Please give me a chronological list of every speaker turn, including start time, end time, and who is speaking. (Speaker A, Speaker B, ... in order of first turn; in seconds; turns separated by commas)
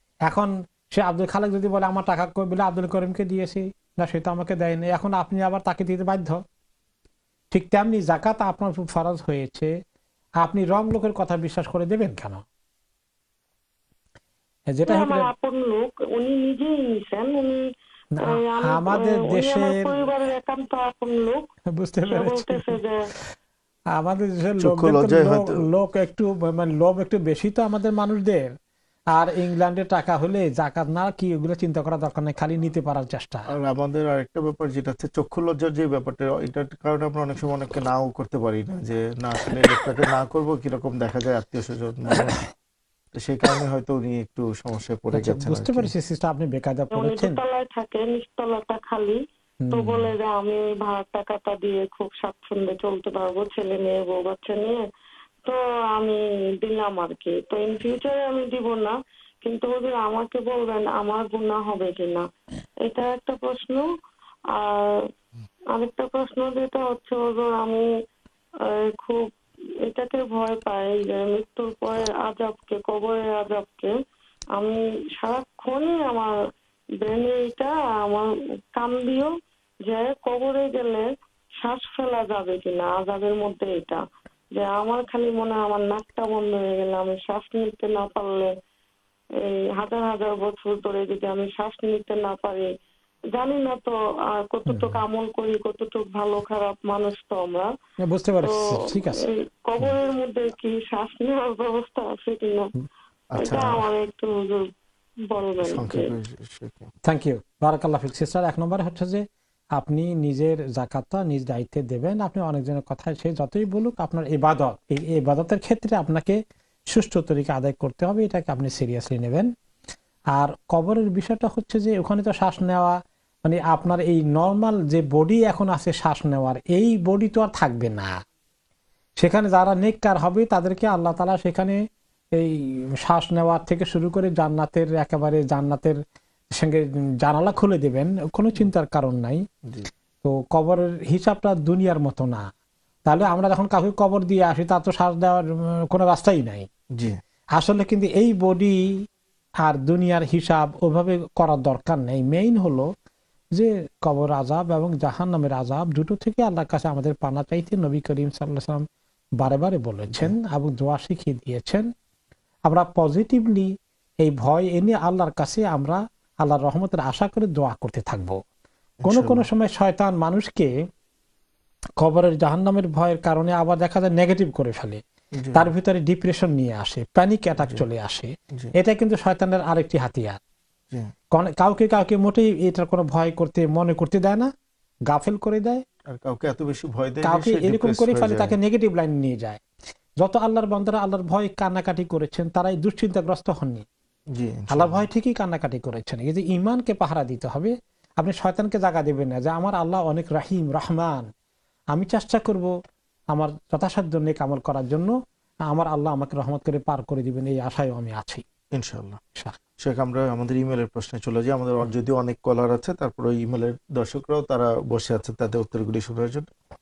Speaker A: 0.3-6.4, Speaker A: 7.5-9.7, Speaker A: 10.4-12.4, Speaker A: 14.7-15.3, Speaker B: 14.9-17.6, Speaker A: 18.1-19.9, Speaker B: 18.3-21.5, Speaker A: 21.7-22.8, Speaker B: 22.1-23.0, Speaker A: 24.0-28.5, Speaker C: 24.6-25.6, Speaker A: 29.1-33.5, Speaker C: 33.5-42.4, Speaker C: 43.1-45.9, Speaker A: 45.1-47.4, Speaker B: 46.9-49.2, Speaker A: 49.6-50.1, Speaker B: 49.7-54.8, Speaker B: 55.5-62.2, Speaker B: 62.8-63.9, Speaker B: 64.5-65.0, Speaker B: 65.7-67.9, Speaker B: 68.6-69.3, Speaker B: 69.8-73.9, Speaker B: 74.5-76.3, Speaker B: 77.0-79.3, Speaker B: 79.8-81.1, Speaker B: 81.6-84.0, Speaker B: 84.5-88.5, Speaker B: 89.4-92.7, Speaker B: 93.3-97.7, Speaker A: 94.7-95.0, Speaker A: 98.0-99.2, Speaker B: 99.7-102.7, Speaker C: 103.3-103.9, Speaker B: 103.4-104.7, Speaker B: 105.3-106.1, Speaker C: 105.6-106.9, Speaker A: 107.0-109.2, Speaker A: 109.8-116.4, Speaker A: 116.9-119.5, Speaker A: 120.3-128.1, Speaker A: 129.2-131.8, Speaker A: 132.4-136.0, Speaker A: 136.6-139.4, Speaker A: 140.2-142.5, Speaker A: 143.1-146.7, Speaker A: 147.6-149.0, Speaker A: 149.6-152.9, Speaker A: 153.6-158.8, Speaker A: 159.4-161.9, Speaker A: 162.7-163.7, Speaker A: 164.2-168.4, Speaker C: 169.0-169.5, Speaker A: 169.1-170.7, Speaker A: 172.0-175.0, Speaker C: 175.4-175.7, Speaker A: 175.6-180.4, Speaker C: 177.6-177.8, Speaker A: 181.3-184.5, Speaker A: 185.1-185.8, Speaker C: 186.1-188.6, Speaker A: 187.2-189.6, Speaker A: 190.2-193.8, Speaker C: 194.3-195.0, Speaker A: 194.7-201.3, Speaker A: 201.9-202.7, Speaker A: 203.3-205.2, Speaker A: 205.7-208.4, Speaker C: 208.7-209.2, Speaker C: 209.8-216.5